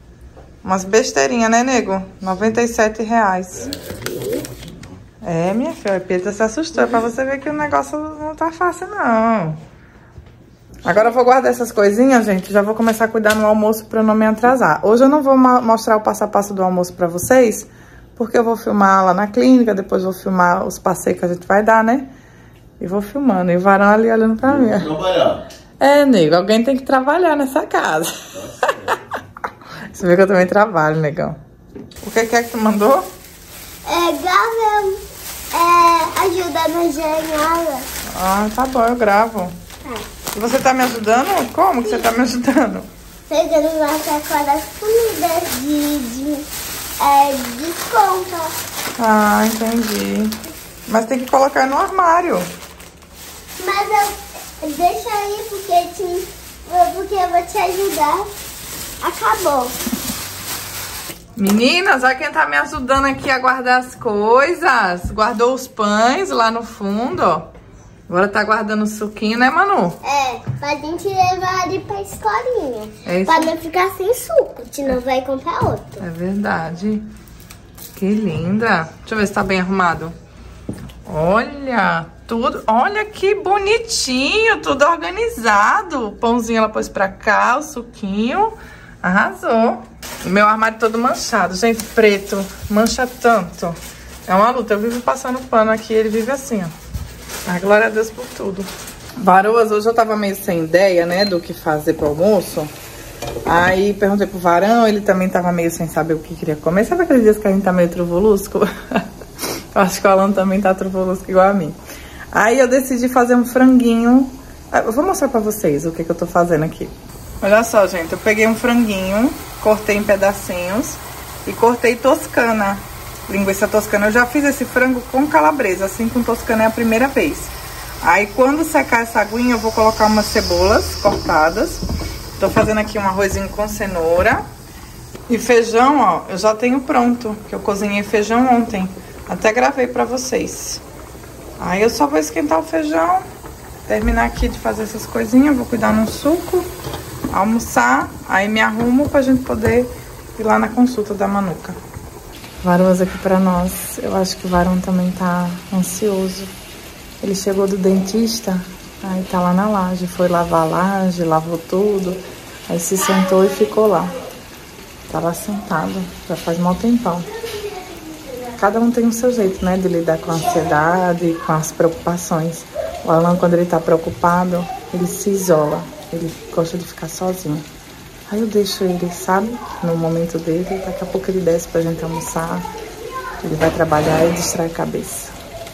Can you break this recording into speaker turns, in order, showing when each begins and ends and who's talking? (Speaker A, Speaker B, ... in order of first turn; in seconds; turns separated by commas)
Speaker A: 0.6-3.8, Speaker B: 3.7-4.7, Speaker A: 5.2-9.6, Speaker A: 10.8-22.1, Speaker A: 22.8-24.9, Speaker B: 24.4-25.4, Speaker A: 25.8-28.3, Speaker B: 28.4-28.7, Speaker A: 29.9-31.4, Speaker A: 32.0-33.1, Speaker C: 33.9-35.0, Speaker C: 35.5-37.9, Speaker A: 38.1-39.5, Speaker A: 40.3-42.9, Speaker C: 43.3-46.5, Speaker C: 47.0-48.5, Speaker A: 49.0-50.4, Speaker A: 50.9-52.5, Speaker C: 53.6-58.3, Speaker C: 59.0-59.8, Speaker A: 61.4-67.5, Speaker A: 68.1-70.0, Speaker C: 70.0-76.0, Speaker A: 73.0-73.5, Speaker A: 76.0-77.1, Speaker A: 77.9-80.1, Speaker A: 81.1-96.7, Speaker A: 97.5-102.7, Speaker A: 103.5-109.0, Speaker A: 109.7-111.8, Speaker A: 112.3-127.5, Speaker A: 128.0-131.8, Speaker A: 132.4-134.4, Speaker A: 135.3-140.8, Speaker A: 141.6-143.2, Speaker A: 143.9-146.7, Speaker A: 147.3-151.8, Speaker A: 152.6-156.5, Speaker A: 157.2-164.1, Speaker A: 165.1-167.3, Speaker A: 168.6-177.7, Speaker A: 178.3-182.7, Speaker A: 183.4-185.3